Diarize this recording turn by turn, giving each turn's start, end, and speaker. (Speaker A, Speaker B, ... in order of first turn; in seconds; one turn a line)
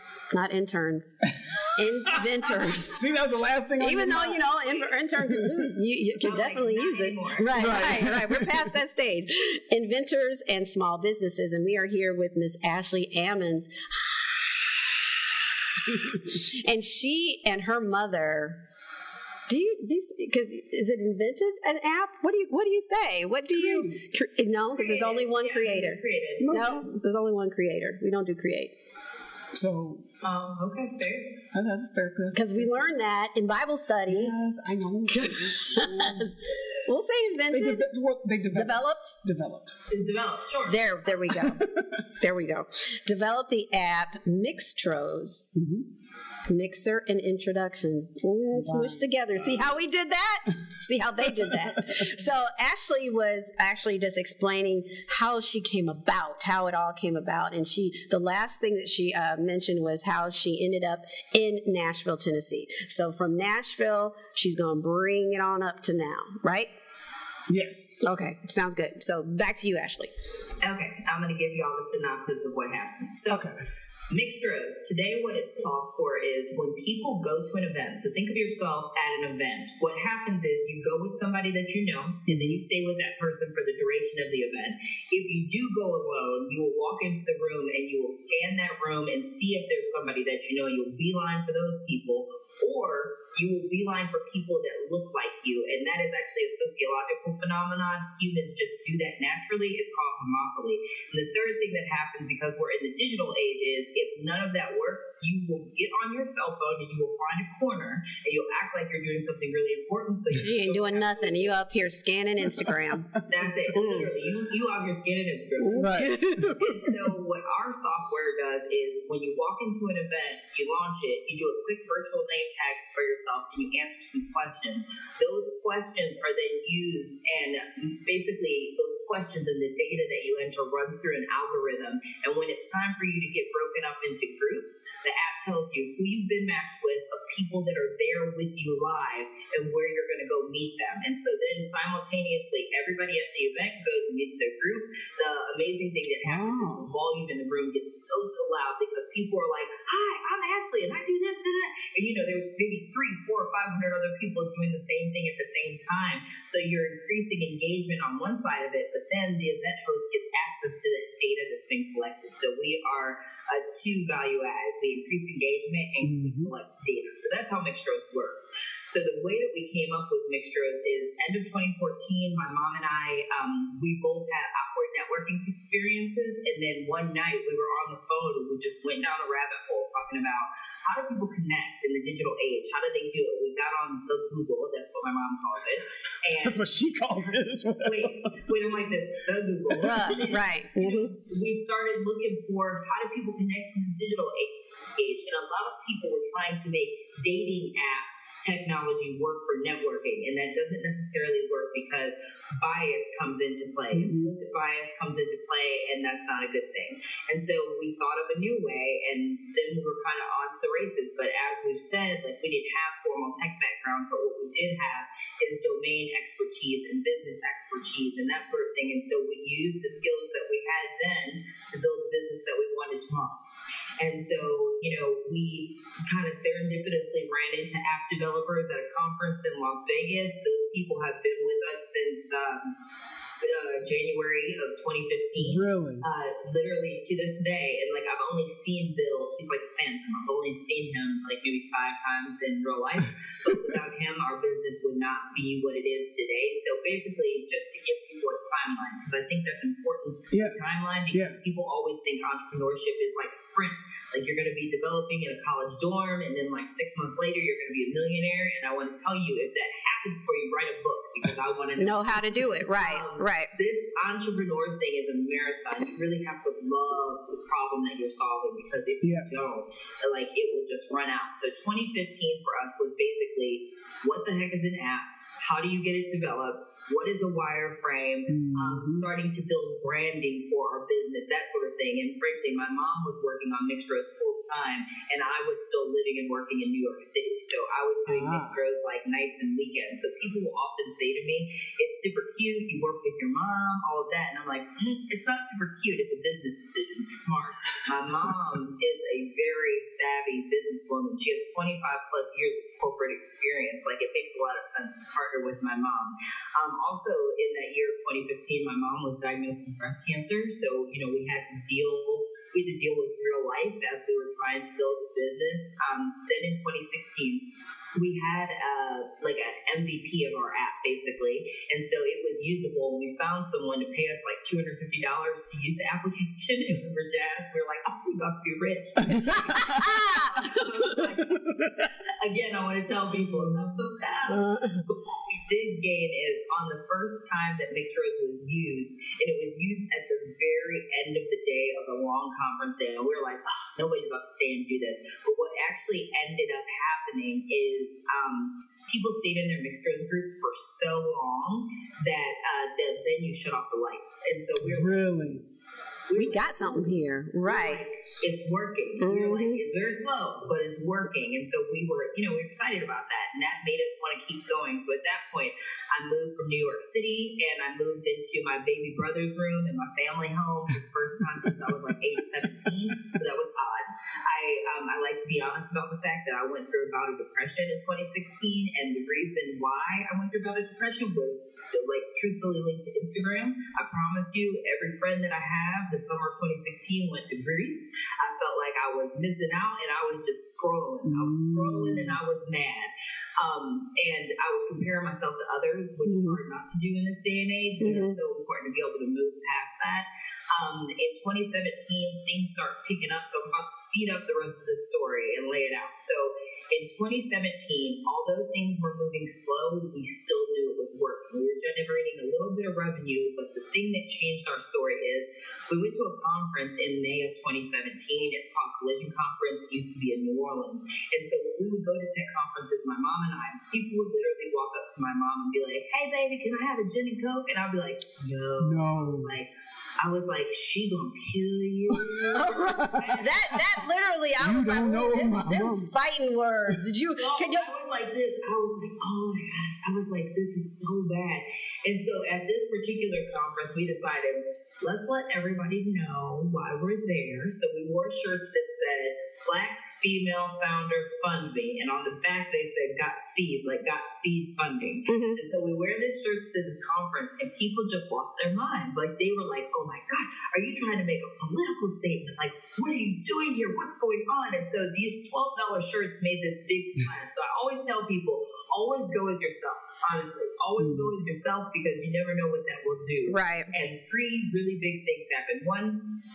Speaker A: 0.3-1.2
Speaker A: 1.7-3.0
Speaker B: 2.1-4.4
Speaker A: 3.8-13.7
Speaker B: 5.2-5.7
Speaker C: 6.2-7.8
Speaker B: 7.5-8.7
Speaker A: 16.2-18.6
Speaker A: 19.5-28.7
Speaker B: 23.5-24.0
Speaker C: 24.7-26.5
Speaker B: 26.4-27.0
Speaker B: 29.5-30.0
Speaker C: 30.2-31.3
Speaker B: 31.5-32.9
Speaker A: 32.3-34.3
Speaker B: 34.1-36.3
Speaker A: 35.1-37.9
Speaker B: 37.5-39.7
Speaker A: 38.5-39.2
Speaker C: 39.9-40.8
Speaker A: 40.7-41.6
Speaker B: 41.3-41.9
Speaker A: 42.2-45.5
Speaker B: 45.5-45.9
Speaker A: 46.5-66.7
Speaker B: 48.5-49.6
Speaker B: 51.4-52.1
Speaker B: 67.5-67.9
Speaker A: 68.0-70.1
Speaker C: 70.6-73.5
Speaker B: 73.3-73.5
Speaker C: 74.1-111.6
Speaker B: 82.2-82.6
Speaker A: 110.3-113.1
Speaker B: 112.5-113.0
Speaker C: 113.3-223.4
Speaker A: 113.7-114.1
Speaker A: 115.6-116.7
Speaker B: 115.8-116.6
Speaker B: 146.2-146.9
Speaker B: 166.0-166.5
Speaker B: 186.4-188.4
Speaker B: 189.7-190.2
Speaker A: 189.8-191.1
Speaker B: 203.9-204.3
Speaker C: 224.0-232.7
Speaker C: 233.4-317.4
Speaker B: 235.4-236.0
Speaker B: 250.3-250.6
Speaker A: 261.8-263.5
Speaker B: 269.0-269.3
Speaker B: 278.3-279.1
Speaker B: 288.1-288.6
Speaker C: 317.9-331.4
Speaker B: 329.1-329.8
Speaker A: 329.6-330.6
Speaker C: 332.2-354.9
Speaker B: 333.1-333.7
Speaker A: 334.3-334.8
Speaker B: 354.6-355.4
Speaker C: 356.1-433.9
Speaker A: 356.1-357.8
Speaker A: 359.0-359.6
Speaker B: 391.0-392.2
Speaker A: 396.0-396.4
Speaker A: 397.8-398.2
Speaker B: 428.6-429.4
Speaker B: 431.9-433.2
Speaker A: 432.3-437.7
Speaker B: 434.4-435.9
Speaker C: 437.2-476.0
Speaker A: 455.1-455.4
Speaker B: 470.8-471.1
Speaker A: 473.3-473.7